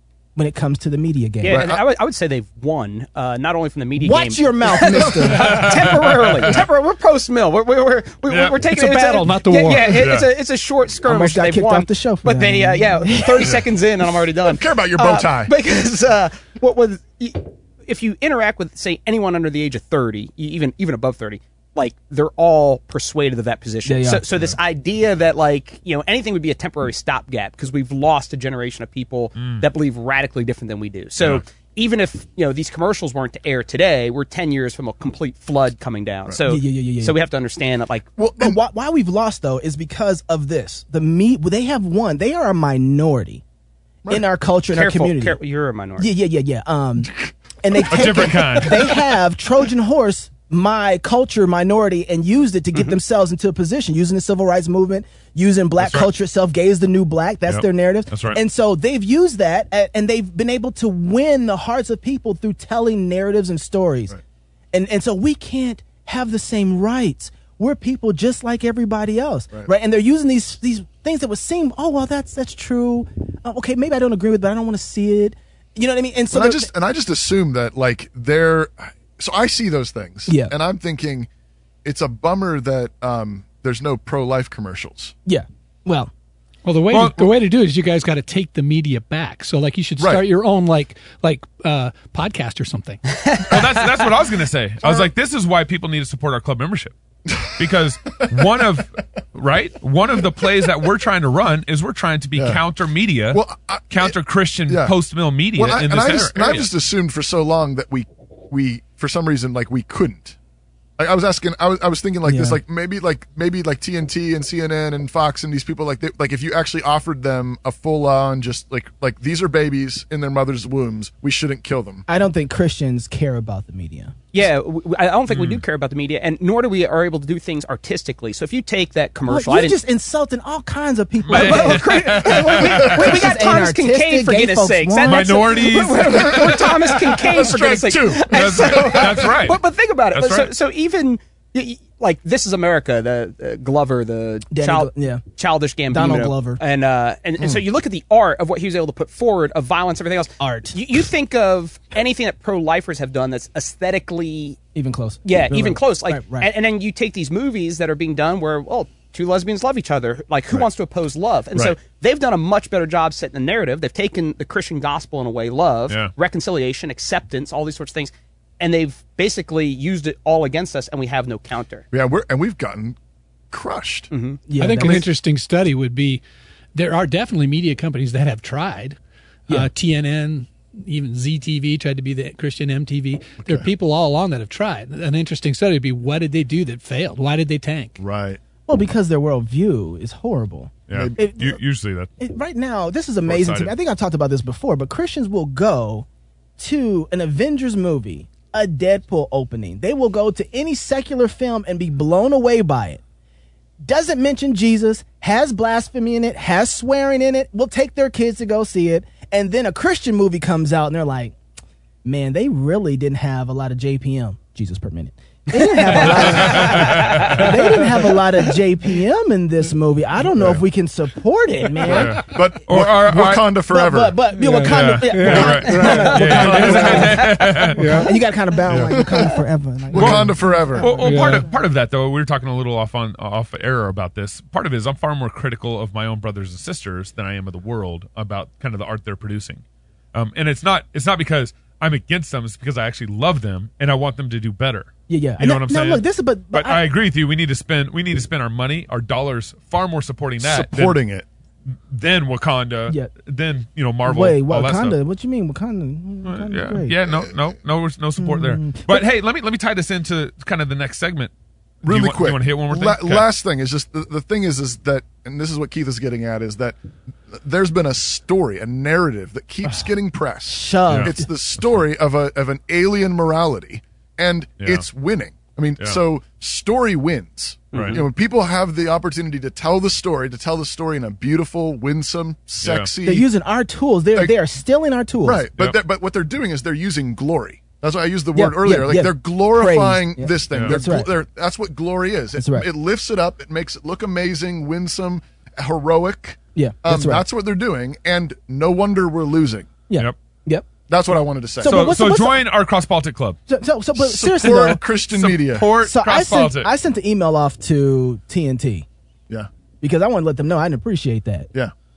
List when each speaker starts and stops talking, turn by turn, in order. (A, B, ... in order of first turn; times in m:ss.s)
0:00.4-0:01.6 A
0:01.4-0:38.1 B
0:01.5-0:01.8 C
0:04.0-0:05.6 A
0:05.4-0:06.6 D
0:08.3-0:08.6 D
0:08.6-0:10.0 E
0:09.9-0:10.3 D
0:11.0-0:13.5 A
0:14.4-0:15.5 C
0:23.8-0:24.2 A
0:29.4-0:29.6 D
0:36.4-0:37.2 A
0:38.2-0:38.6 C
0:38.4-0:43.4 A
0:44.1-0:45.4 A
0:44.7-0:46.1 B
0:46.0-0:47.1 A
0:47.6-1:04.2 A
0:47.9-0:49.0 D
0:55.8-0:56.1 D
0:57.5-0:58.4 D
1:04.7-1:16.7 A
1:16.3-1:21.3 C
1:20.3-1:20.5 A
1:21.8-1:25.1 C
1:25.3-1:26.1 A
1:26.6-1:33.0 E
1:26.9-1:27.3 D
1:30.0-1:30.2 C
1:33.4-1:37.0 D
1:34.8-1:35.1 C
1:37.3-1:38.6 C
1:37.6-1:46.7 D
1:42.4-1:42.6 C
1:43.3-1:45.0 C
1:45.5-1:50.4 C
1:51.0-2:02.0 C
1:52.2-1:52.6 A
2:02.1-2:04.1 A
2:04.3-2:09.8 B
2:05.3-2:05.6 D
2:09.3-2:15.5 A
2:11.3-2:13.3 D
2:11.3-2:34.6 B
2:15.0-2:17.1 D
2:17.1-2:19.4 C
2:18.3-2:19.6 D
2:20.1-2:20.5 D
2:24.5-2:25.2 A
2:25.9-2:26.6 A
2:30.4-2:30.8 A
2:34.8-2:36.5 A
2:35.2-2:51.9 B
2:51.9-2:53.0 C
2:53.5-2:54.1 C
2:54.1-2:54.4 B
2:54.5-2:55.1 A
2:54.6-2:56.2 E
2:56.7-2:59.0 E
2:59.5-3:08.0 E
3:03.4-3:03.7 C
3:08.0-3:08.4 C
3:08.7-3:11.6 A
3:10.9-3:12.1 D
3:10.9-3:11.6 C
3:12.2-3:16.1 A
3:13.3-3:13.7 D
3:16.6-3:23.0 A
3:23.8-3:31.4 A
3:32.0-3:42.2 A
3:35.8-3:37.5 B
3:36.3-3:37.4 D
3:37.4-3:38.1 E
3:40.4-3:40.6 C
3:41.8-3:43.5 D
3:41.9-3:44.2 C
3:43.7-3:51.4 A
3:44.3-3:47.2 E
3:44.6-3:48.1 D
3:46.4-3:47.0 C
3:46.4-3:47.6 B
3:47.7-3:48.2 E
3:48.7-3:49.0 D
3:49.9-3:51.0 C
3:50.0-3:59.6 D
3:51.0-3:51.5 E
4:00.1-4:11.0 D
4:05.1-4:06.8 A
4:10.4-4:11.3 C
4:11.7-4:15.0 D
4:14.0-4:17.0 A
4:16.2-4:21.3 D
4:18.2-4:19.0 A
4:21.8-4:43.3 C
4:21.8-4:23.3 D
4:30.5-4:31.3 A
4:34.6-4:34.9 D
4:37.7-4:38.0 D
4:37.7-4:38.0 B
4:42.6-4:42.9 D
4:43.0-4:45.5 A
4:45.2-4:59.7 C
4:48.4-4:51.1 A
4:50.5-4:50.8 D
4:52.4-4:52.7 A
4:56.6-4:57.2 A
4:59.9-5:00.7 A
5:00.9-5:02.0 C
5:01.6-5:02.4 A
5:01.7-5:03.4 D
5:03.5-5:04.8 A
5:04.0-5:05.7 C
5:05.1-5:06.7 D
5:05.8-5:08.9 A
5:09.8-5:11.5 A